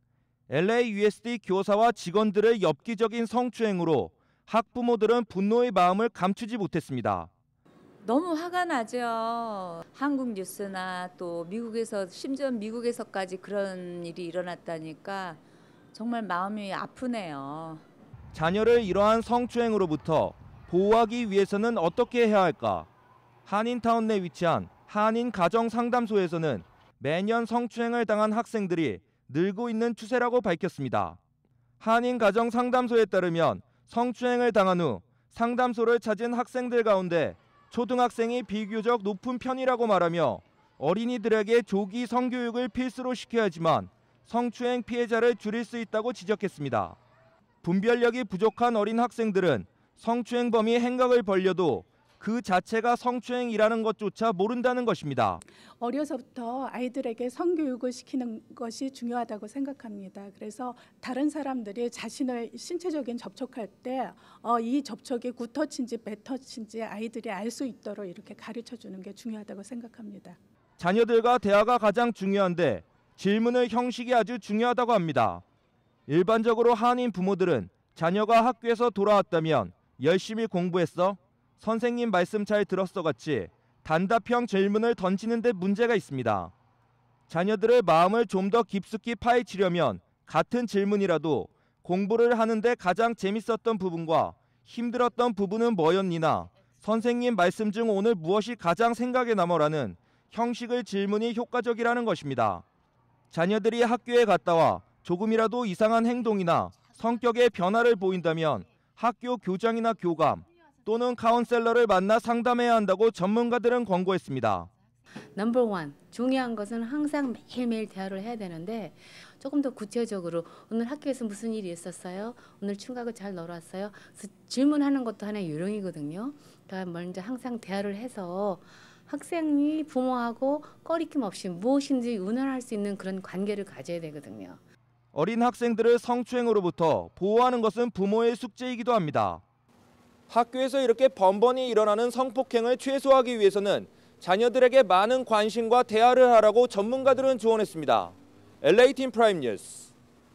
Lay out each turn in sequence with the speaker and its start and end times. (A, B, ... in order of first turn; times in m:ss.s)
0:00.5-0:07.3 A
0:08.0-0:15.4 B
0:15.9-0:17.8 B
0:18.3-0:22.9 A
0:23.4-0:31.2 A
0:31.8-0:47.0 A
0:47.6-0:55.4 A
0:55.8-1:10.4 C
1:10.8-1:15.4 A
1:16.1-1:26.5 A
1:27.3-1:42.6 A
1:43.3-1:54.7 A
1:55.3-2:14.6 D
2:15.1-2:19.4 A
2:20.3-2:29.9 A